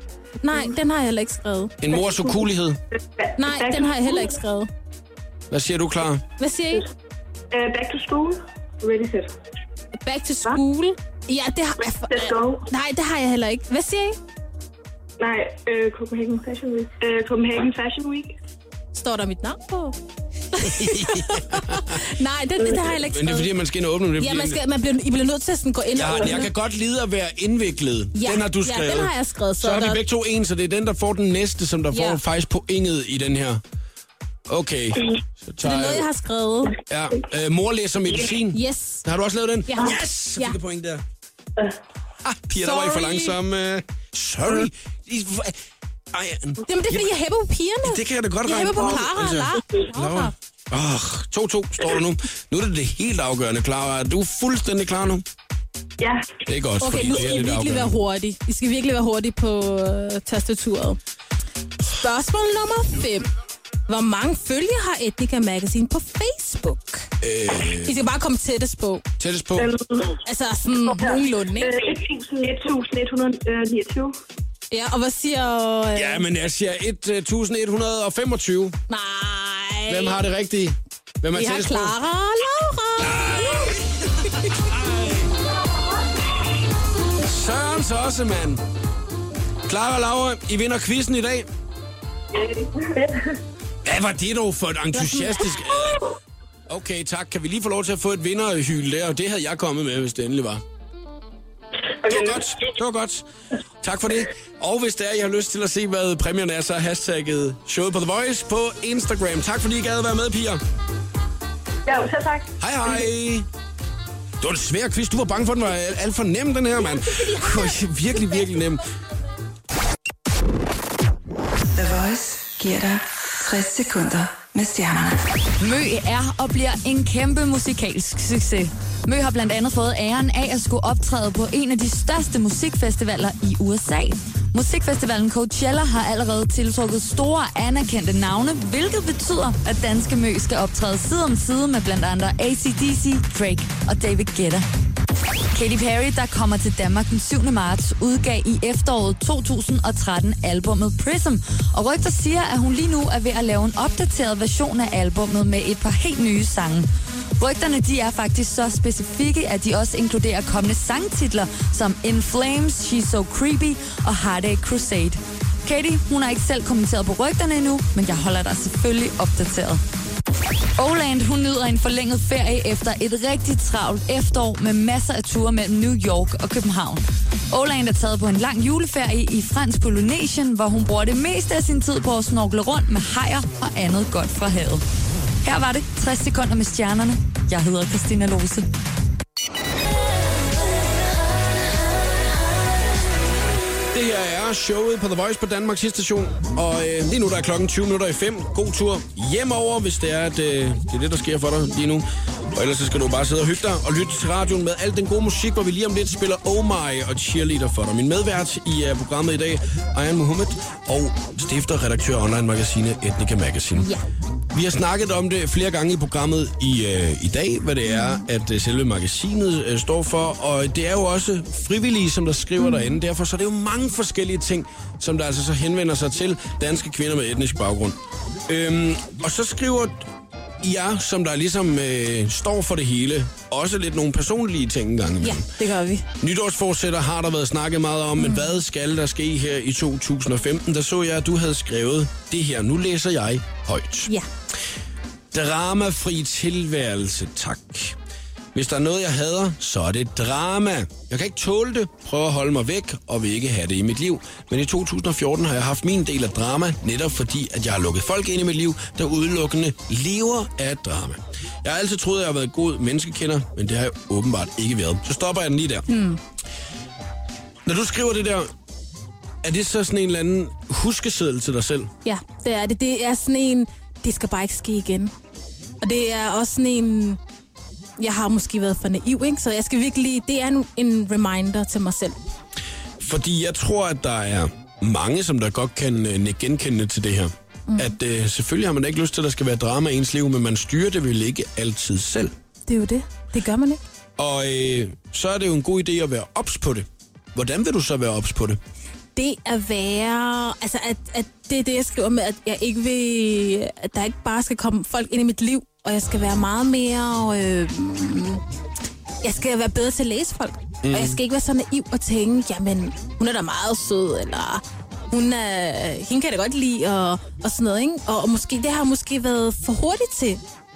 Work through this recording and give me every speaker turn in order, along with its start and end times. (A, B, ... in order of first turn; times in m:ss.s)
0:00.4-0:01.7 A
0:01.8-0:02.8 B
0:01.9-0:02.4 C
0:02.9-0:04.4 C
0:03.4-0:04.7 A
0:05.5-0:06.2 B
0:06.4-0:06.9 A
0:07.5-0:09.3 C
0:10.0-0:14.2 A
0:12.1-0:12.6 C
0:15.2-0:18.3 C
0:18.9-0:20.0 A
0:20.5-0:23.6 A
0:20.6-0:22.0 B
0:22.9-0:24.6 B
0:24.2-0:26.5 A
0:26.0-0:33.6 B
0:28.2-0:30.0 A
0:31.9-0:32.2 A
0:34.5-0:36.1 B
0:35.6-0:36.8 A
0:36.9-0:41.0 B
0:38.5-0:39.0 A
0:39.7-0:40.6 A
0:42.2-0:45.6 B
0:42.6-0:43.2 A
0:46.1-0:47.1 B
0:46.7-0:50.3 A
0:47.8-0:55.3 B
0:56.0-0:56.3 C
0:56.5-0:57.9 B
0:56.8-1:01.0 A
1:01.8-1:03.3 A
1:03.9-1:07.1 A
1:07.2-1:08.0 B
1:07.8-1:09.0 A
1:09.2-1:09.8 B
1:09.6-1:10.2 C
1:10.2-1:11.8 A
1:10.8-1:14.1 C
1:14.7-1:16.2 A
1:15.9-1:18.8 B
1:18.9-1:20.2 A
1:19.9-1:22.0 B
1:21.4-1:24.6 A
1:23.0-1:25.3 B
1:27.2-1:28.6 B
1:29.7-1:31.5 B
1:32.4-1:33.3 C
1:33.8-1:36.0 B
1:34.9-1:36.0 A
1:36.7-1:40.6 B
1:42.0-1:42.4 C
1:42.1-1:43.3 B
1:43.8-1:50.6 B
1:51.9-1:52.5 C
1:52.6-1:53.5 B
1:54.4-1:58.8 B
1:57.0-1:58.2 A
2:01.8-2:05.2 D
2:05.6-2:24.7 E
2:25.5-2:49.8 E
2:50.8-3:04.8 E
3:05.4-3:08.7 E
3:13.9-3:33.9 B
3:33.8-3:34.0 A
3:34.5-3:48.0 B
3:37.9-3:38.2 A
3:42.6-3:42.9 A
3:48.5-3:50.1 B
3:50.6-3:55.5 B
3:55.2-3:56.0 A
3:56.2-4:04.1 B
3:58.2-3:58.6 A
4:05.3-4:08.0 B
4:08.5-4:25.9 B
4:25.9-4:26.2 A
4:27.6-4:28.5 B
4:29.4-4:31.9 B
4:32.0-4:35.1 A
4:35.8-4:37.2 A
4:38.0-4:42.3 A
4:43.0-4:52.3 B
4:47.7-4:48.0 A
4:52.7-4:53.8 A
4:54.2-4:58.6 B
4:59.2-5:08.4 A
5:09.2-5:20.4 A
5:10.8-5:11.2 B